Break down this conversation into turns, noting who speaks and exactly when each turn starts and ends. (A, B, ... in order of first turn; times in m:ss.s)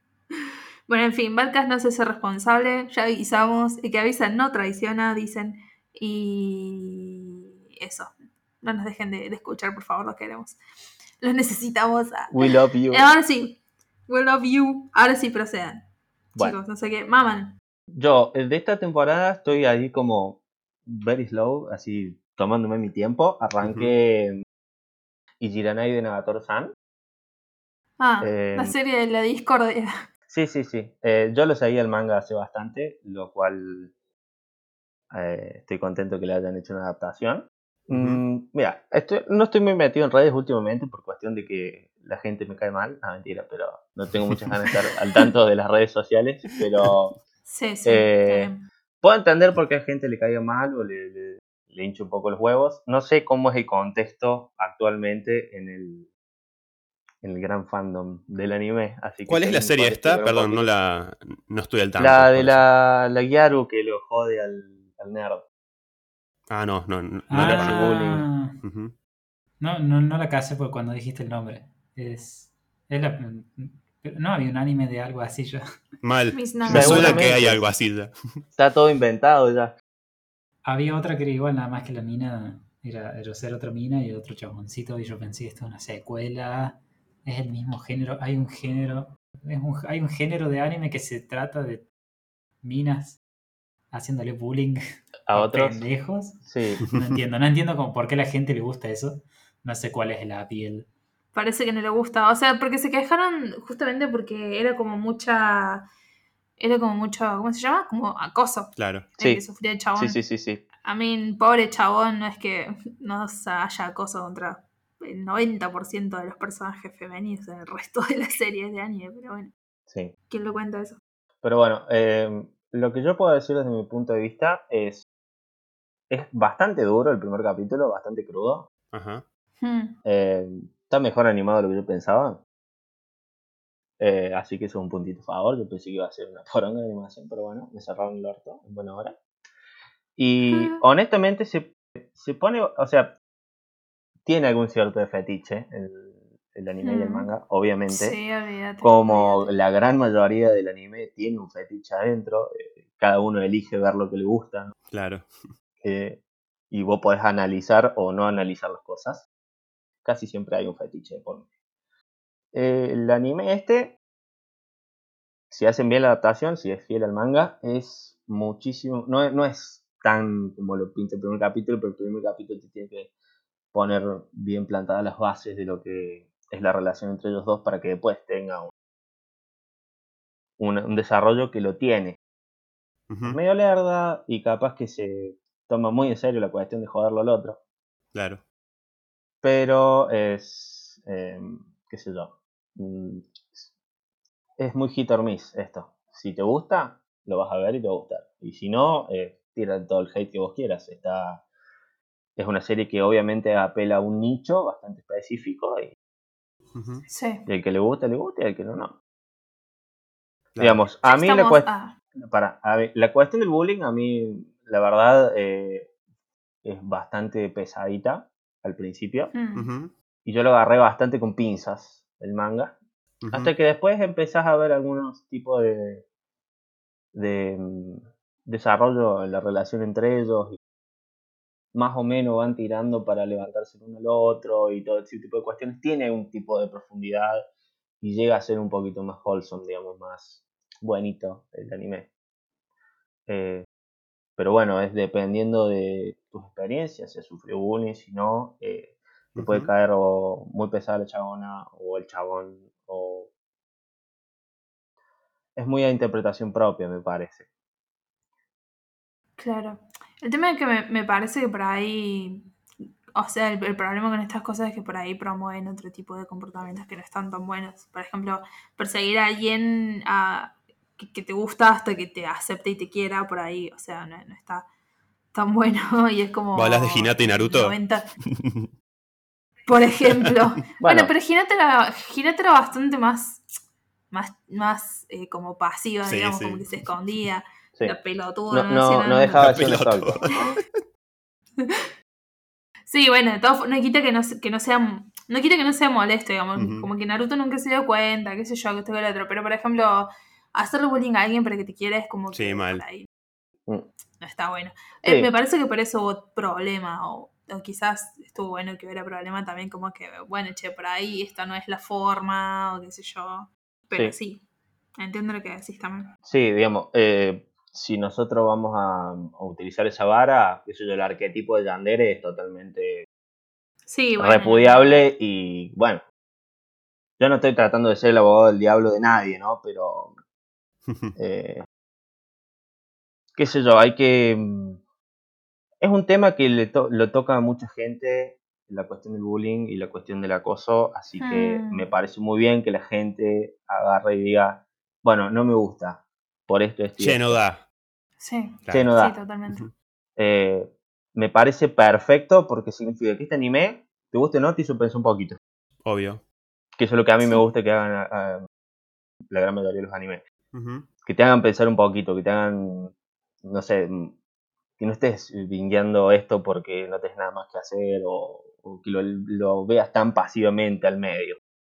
0:00.4-0:10.6 A
0:11.2-0:15.8 A
0:12.3-0:13.0 B
0:16.4-0:17.5 A
0:18.0-0:24.4 B
0:23.6-0:23.9 C
0:25.4-0:26.7 B
0:28.0-0:30.0 A
0:28.2-0:28.7 B
0:30.3-0:33.9 B
0:35.1-0:47.1 B
0:37.9-0:38.2 C
0:47.5-0:48.7 A
0:47.8-0:56.1 B
0:57.2-1:00.7 B
0:59.3-1:02.6 C
1:02.0-1:05.4 B
1:06.5-1:07.9 C
1:07.3-1:08.6 D
1:07.3-1:08.2 B
1:08.6-1:08.9 C
1:09.6-1:15.6 D
1:16.0-1:18.1 C
1:16.3-1:17.3 A
1:16.7-1:17.6 B
1:18.6-1:19.7 B
1:20.6-1:31.8 D
1:32.6-1:33.2 D
1:33.9-1:40.9 D
1:35.3-1:35.8 B
1:36.4-1:36.8 B
1:36.9-1:37.2 C
1:41.3-1:45.9 A
1:46.6-1:50.2 A
1:48.8-1:49.1 C
1:50.0-1:50.6 B
1:50.8-1:59.5 A
2:00.3-2:01.0 A
2:01.4-2:05.0 B
2:06.1-2:08.7 B
2:08.9-2:09.2 C
2:09.6-2:10.0 A
2:10.0-2:12.4 B
2:14.0-2:19.1 B
2:20.2-2:23.1 B
2:20.5-2:20.8 A
2:24.3-2:28.2 B
2:26.8-2:27.3 A
2:27.9-2:29.5 A
2:28.8-2:34.7 B
2:34.9-2:35.3 C
2:35.8-2:36.2 B
2:36.7-2:39.3 B
2:40.0-2:41.4 B
2:42.5-2:44.0 B
2:45.5-2:53.1 B
2:53.7-2:58.7 B
3:00.6-3:02.2 B
3:03.1-3:03.4 C
3:03.2-3:07.6 B
3:08.1-3:08.4 C
3:09.4-3:13.7 B
3:14.6-3:21.4 B
3:22.4-3:25.9 B
3:26.8-3:27.0 C
3:27.1-3:27.4 A
3:27.5-3:29.0 B
3:30.6-3:30.8 C
3:30.6-3:31.7 B
3:31.0-3:31.9 A
3:32.2-3:35.9 B
3:36.6-3:39.3 B
3:39.3-3:39.7 A
3:39.6-3:39.9 C
3:40.3-3:42.8 B
3:43.2-3:43.5 C
3:43.3-3:46.0 B
3:47.2-3:50.6 B
3:51.7-3:57.4 B
3:58.0-4:02.1 B
4:03.3-4:03.7 B
4:04.4-4:13.3 B
4:09.4-4:09.7 C
4:15.6-4:17.4 B
4:19.4-4:22.5 A
4:23.2-4:34.7 A
4:35.3-4:38.1 A
4:36.6-4:38.7 C
4:39.7-4:43.5 A
4:40.8-4:41.1 B
4:44.1-4:49.4 A
4:46.1-4:46.8 C
4:48.5-4:50.1 B
4:49.4-4:50.5 C
4:50.3-4:50.6 A
4:51.6-4:51.9 A
4:52.9-5:03.1 A
4:56.6-4:56.9 C
5:02.3-5:02.8 C
5:04.2-5:14.4 A
5:15.0-5:16.1 A
5:16.2-5:23.0 B
5:23.9-5:24.9 A
5:24.2-5:26.0 B
5:27.2-5:30.1 B
5:30.9-5:31.1 C
5:31.2-5:31.6 B
5:33.4-5:34.8 B
5:35.8-5:47.4 B
5:41.2-5:41.8 A
5:47.0-5:47.6 C
5:48.2-5:49.7 A
5:48.7-5:49.2 B
5:50.2-5:55.4 B
5:55.8-5:56.2 C
5:56.8-5:58.4 B
5:59.3-6:00.2 B
6:00.5-6:00.9 C
6:01.0-6:04.1 B
6:04.8-6:11.4 B